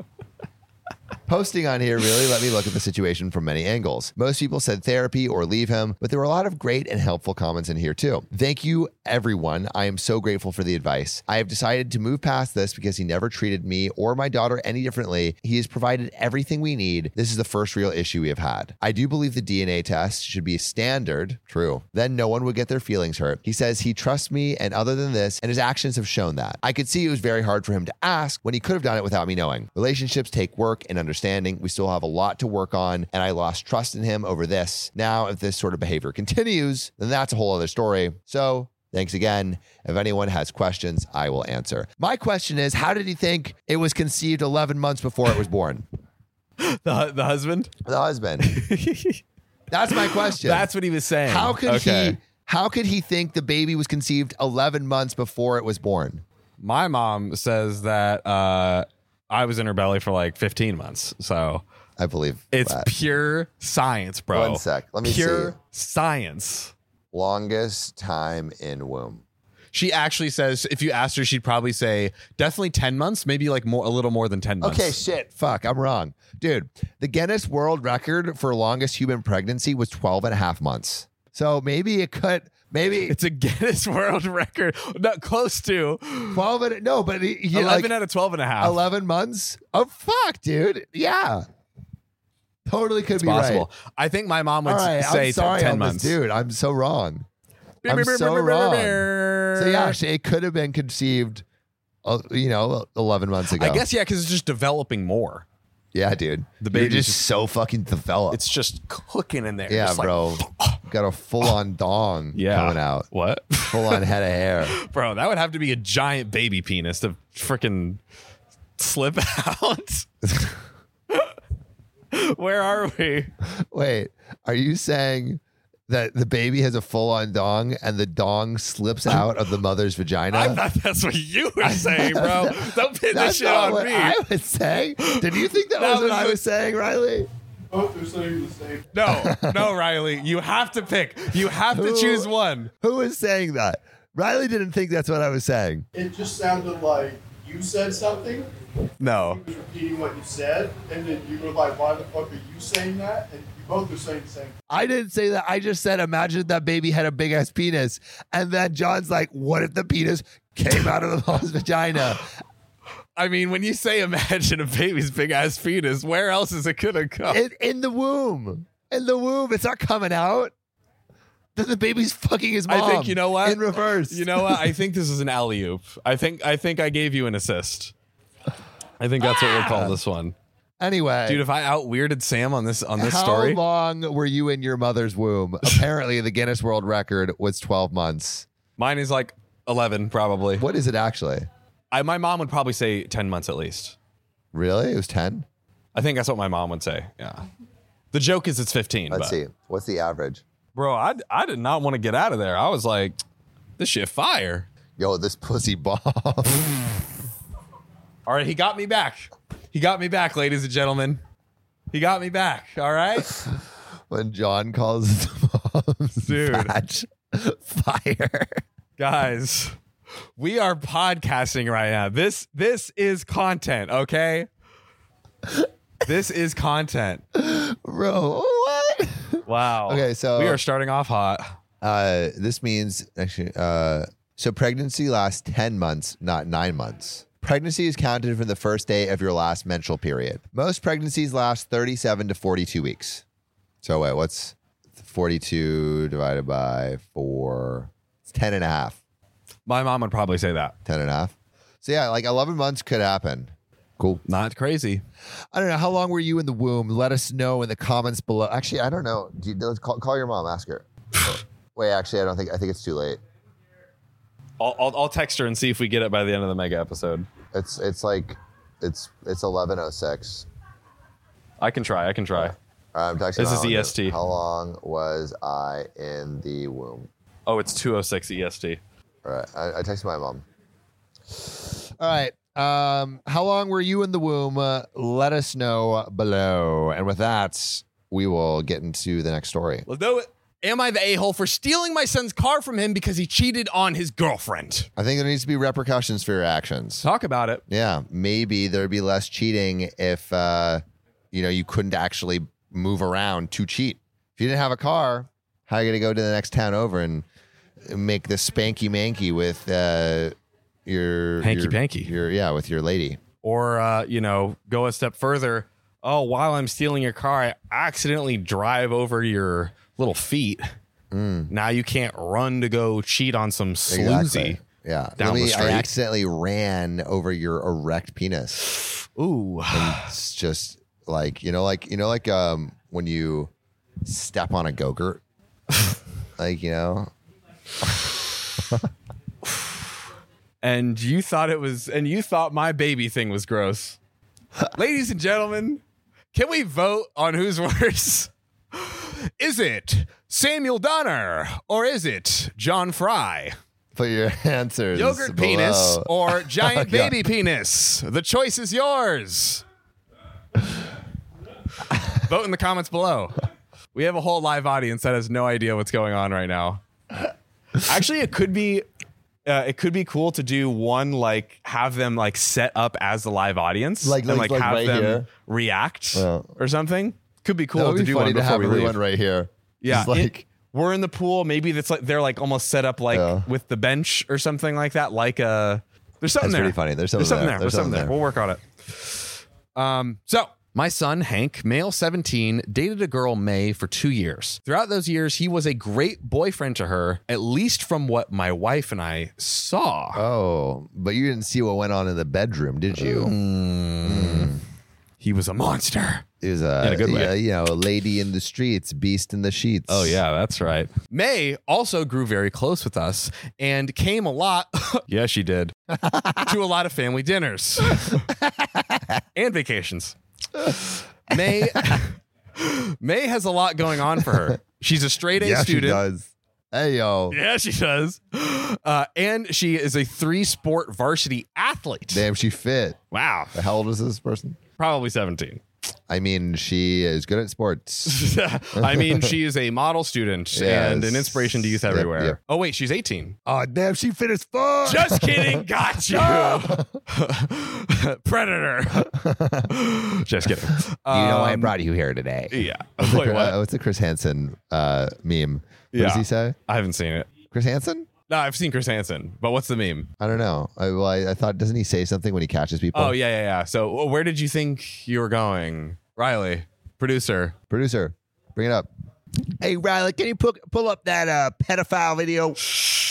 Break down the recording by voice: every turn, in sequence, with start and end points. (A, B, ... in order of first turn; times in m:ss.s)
0:01.3-0:45.8 A
0:46.6-0:47.7 B
0:47.8-0:48.6 A
0:48.4-0:49.2 B
0:49.7-0:50.7 A
0:49.9-0:52.2 B
0:51.3-0:56.2 A
0:56.6-1:01.6 B
1:02.0-1:02.9 A
1:02.5-1:06.7 B
1:04.3-1:05.5 A
1:07.1-1:09.2 A
1:09.7-1:15.0 B
1:14.6-1:23.2 A
1:23.1-1:26.4 B
1:26.3-1:27.9 A
1:27.5-1:28.8 B
1:28.6-1:31.4 A
1:32.7-1:33.7 A
1:33.2-1:36.2 B
1:34.6-1:37.3 A
1:37.8-1:40.0 B
1:37.9-1:41.4 A
1:42.0-1:43.8 A
1:43.5-1:45.4 B
1:45.9-1:48.4 A
1:46.6-1:47.2 B
1:48.3-1:50.8 B
1:49.7-1:53.1 A
1:52.4-1:54.1 B
1:53.6-1:54.8 A
1:54.6-1:58.0 B
1:58.8-2:00.1 B
2:00.2-2:00.6 A
2:01.1-2:01.3 B
2:02.1-2:03.3 B
2:03.7-2:10.6 A
2:10.3-2:14.2 B
2:11.6-2:17.3 A
2:15.0-2:16.4 B
2:17.7-2:18.9 C
2:18.9-2:22.7 B
2:19.1-2:19.7 A
2:21.6-2:25.9 A
2:25.9-2:28.5 C
2:29.0-2:29.4 B
2:29.3-2:34.6 C
2:34.7-2:42.3 A
2:43.2-2:47.4 B
2:47.3-2:50.5 A
2:51.6-2:54.8 A
2:52.7-2:57.9 B
2:59.0-3:00.4 B
2:59.2-3:00.0 A
3:00.8-3:01.4 A
3:01.3-3:03.6 B
3:03.0-3:08.5 A
3:08.8-3:10.7 B
3:10.6-3:11.5 A
3:11.9-3:14.0 B
3:14.5-3:15.5 A
3:15.9-3:17.5 B
3:18.1-3:19.4 B
3:19.1-3:20.4 A
3:20.8-3:23.2 B
3:23.8-3:24.7 B
3:25.0-3:26.8 A
3:28.3-3:31.2 B
3:31.9-3:33.3 B
3:33.3-3:33.6 A
3:34.1-3:38.6 A
3:36.2-3:36.8 B
3:39.0-3:39.8 B
3:40.4-3:44.5 B
3:46.0-3:47.2 B
3:47.4-3:50.6 A
3:49.5-3:51.5 B
3:51.8-4:03.2 A
4:03.8-4:09.0 A
4:09.7-4:10.8 B
4:10.8-4:14.2 A
4:14.3-4:15.0 B
4:15.5-4:23.2 A
4:24.6-4:27.3 B
4:27.5-4:30.5 A
4:31.6-4:32.6 B
4:32.4-4:37.1 A
4:33.4-4:34.2 B
4:37.5-4:38.8 B
4:39.2-4:40.4 A
4:41.3-4:49.9 A
4:49.9-4:54.9 B
4:55.0-4:57.1 A
4:57.0-4:57.6 B
4:57.7-5:07.2 A
5:07.9-5:10.4 A
5:10.9-5:13.2 A
5:11.4-5:12.1 B
5:13.4-5:20.7 B
5:21.1-5:21.5 A
5:21.5-5:24.6 B
5:23.9-5:28.7 A
5:25.2-5:25.9 B
5:29.0-5:30.1 B
5:29.7-5:33.5 A
5:34.0-5:35.2 A
5:36.4-5:37.1 A
5:39.4-5:39.9 B
5:40.6-5:44.0 B
5:44.7-5:45.8 B
5:46.3-5:53.6 B
5:54.0-5:57.2 A
5:54.9-5:59.6 B
6:01.9-6:03.4 B
6:03.9-6:06.8 B
6:07.8-6:08.8 B
6:09.4-6:19.0 B
6:14.0-6:15.3 A
6:16.1-6:16.5 A
6:17.8-6:20.5 A
6:19.8-6:40.2 B
6:23.1-6:23.5 A
6:26.4-6:28.1 A
6:40.1-6:43.4 A
6:43.0-6:44.5 B
6:44.0-6:44.6 A
6:45.2-6:46.2 B
6:46.4-6:50.2 A
6:46.8-6:47.3 B
6:49.9-6:55.7 B
6:55.9-6:56.5 A
6:56.4-6:58.2 B
6:58.0-6:59.2 A
6:59.4-7:00.2 B
7:01.3-7:06.0 B
7:01.3-7:02.0 A
7:05.4-7:07.4 A
7:07.3-7:12.3 B
7:12.1-7:13.0 A
7:13.1-7:13.6 B
7:13.5-7:14.6 A
7:14.8-7:15.6 B
7:16.1-7:19.3 A
7:18.1-7:23.4 B
7:20.5-7:22.4 A
7:23.4-7:27.0 A
7:24.8-7:29.1 B
7:29.0-7:29.8 A
7:29.7-7:31.7 B
7:31.1-7:36.6 A
7:32.5-7:33.6 B
7:35.9-7:37.3 B
7:37.5-7:38.1 A
7:38.3-7:40.1 B
7:40.2-7:43.2 A
7:42.9-7:47.6 B
7:47.7-7:48.9 A
7:49.6-7:52.7 A